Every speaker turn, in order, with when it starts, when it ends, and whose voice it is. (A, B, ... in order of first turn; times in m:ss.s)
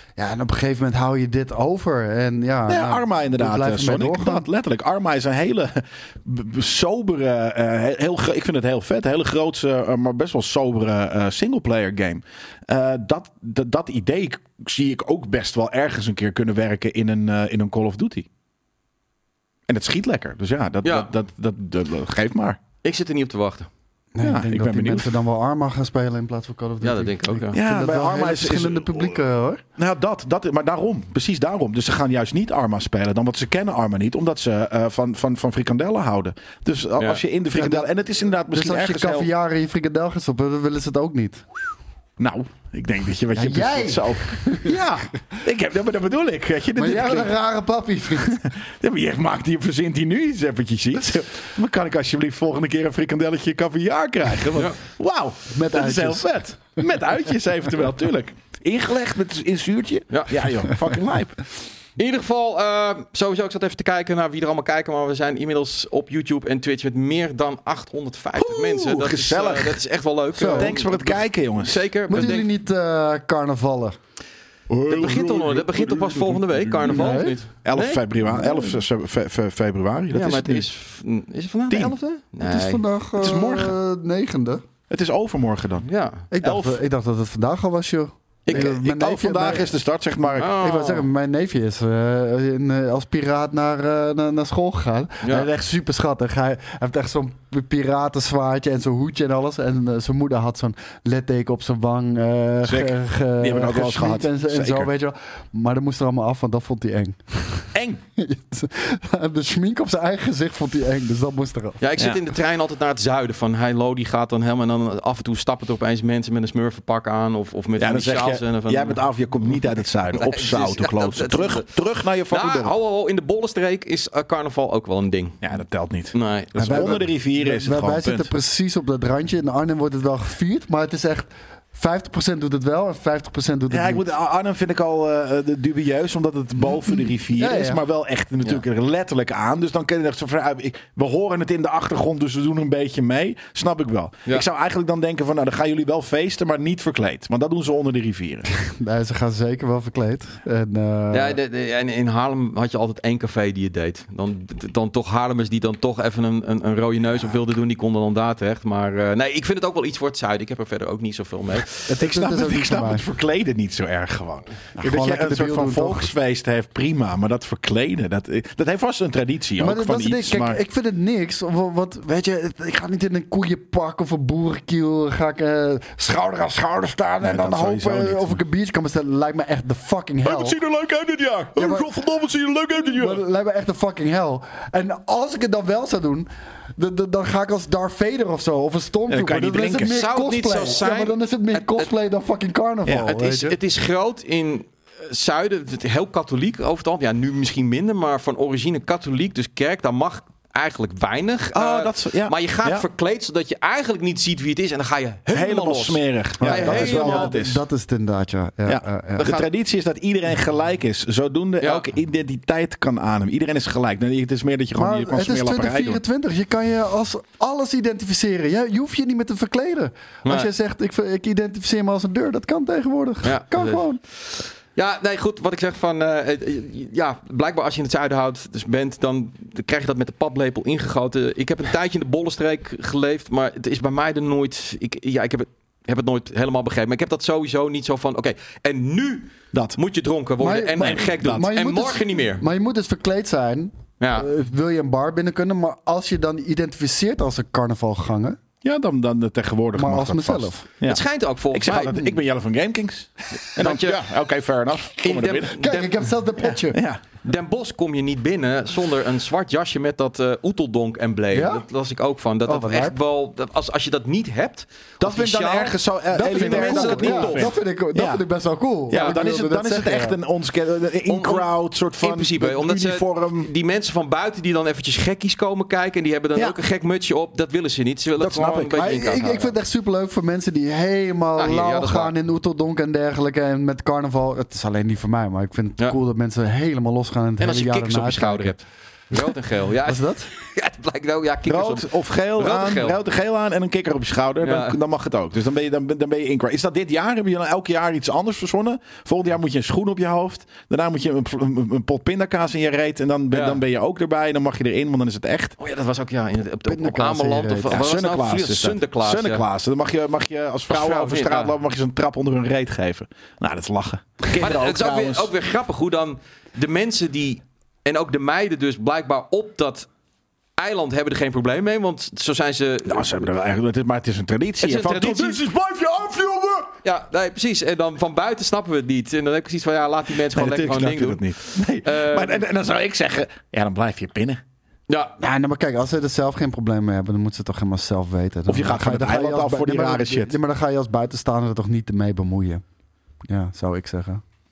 0:00.2-0:04.4 A
0:02.7-0:18.3 B
0:19.7-0:22.6 B
0:20.8-0:21.1 C
0:22.8-0:23.7 C
0:24.2-0:29.6 A
0:24.2-0:25.1 B
0:26.8-0:27.6 C
0:27.5-0:29.2 B
0:29.8-0:39.3 B
0:37.6-0:37.9 A
0:38.5-0:41.4 A
0:42.2-0:47.3 B
0:43.4-0:44.8 A
0:46.8-0:48.4 A
0:48.3-1:01.4 B
0:55.5-0:56.7 A
1:00.1-1:00.4 C
1:02.0-1:12.5 C
1:08.4-1:09.8 B
1:10.4-1:10.8 A
1:10.5-1:12.3 B
1:12.1-1:14.0 A
1:14.7-1:20.7 B
1:14.9-1:18.0 C
1:16.9-1:17.4 A
1:18.2-1:18.8 A
1:20.1-1:22.8 C
1:21.7-1:22.0 B
1:22.4-1:24.6 A
1:23.2-1:23.8 B
1:24.9-1:25.9 B
1:25.8-1:26.2 C
1:26.3-1:29.7 A
1:26.4-1:26.8 B
1:28.5-1:30.5 B
1:30.3-1:51.8 A
1:30.4-1:31.1 C
1:35.2-1:35.5 C
1:42.6-1:44.9 B
1:47.7-1:48.0 B
1:51.8-1:59.0 C
1:57.8-2:02.7 B
2:00.1-2:05.4 C
2:05.4-2:08.3 B
2:06.1-2:06.9 C
2:06.6-2:14.1 A
2:13.7-2:28.5 B
2:17.4-2:17.8 A
2:28.6-2:31.4 A
2:31.1-2:42.0 C
2:41.9-2:43.0 A
2:42.0-2:50.6 B
2:44.8-2:46.1 A
2:49.6-3:00.6 A
2:57.2-2:58.4 B
3:00.2-3:03.2 B
3:01.6-3:01.9 A
3:02.9-3:13.6 A
3:09.1-3:10.0 B
3:09.8-3:11.9 C
3:12.9-3:13.1 B
3:13.1-3:27.3 C
3:21.5-3:22.8 B
3:25.3-3:27.6 B
3:26.4-3:29.3 A
3:28.6-3:36.0 B
3:29.2-3:29.5 C
3:31.6-3:31.9 C
3:34.8-3:44.0 A
3:43.2-4:02.4 C
3:59.5-3:59.8 B
4:00.4-4:08.4 A
4:00.8-4:01.5 B
4:04.0-4:04.3 C
4:08.6-4:15.6 B
4:09.8-4:10.6 A
4:10.8-4:12.0 C
4:13.6-4:14.0 C
4:15.0-4:15.9 C
4:15.5-4:16.8 A
4:16.4-4:17.0 B
4:17.2-4:27.5 C
4:21.3-4:21.6 A
4:22.4-4:23.0 A
4:25.0-4:28.2 B
4:26.1-4:30.2 A
4:28.9-4:33.5 B
4:28.9-4:29.2 C
4:31.1-4:39.5 C
4:38.2-4:38.9 B
4:38.8-4:48.6 A
4:41.4-4:42.1 C
4:47.4-4:53.0 C
4:49.8-4:50.3 A
4:51.5-5:05.6 B
4:54.4-4:54.8 C
5:03.3-5:03.6 C
5:05.6-5:09.4 C
5:06.7-5:07.8 A
5:07.7-5:15.3 B
5:10.7-5:11.6 C
5:14.4-5:19.9 C
5:20.6-5:23.3 C
5:22.9-5:26.7 B
5:24.6-5:25.4 C
5:26.8-5:32.5 C
5:30.2-5:34.4 B
5:34.9-5:35.1 C
5:35.2-5:42.6 A
5:38.5-5:40.4 B
5:43.3-5:44.2 A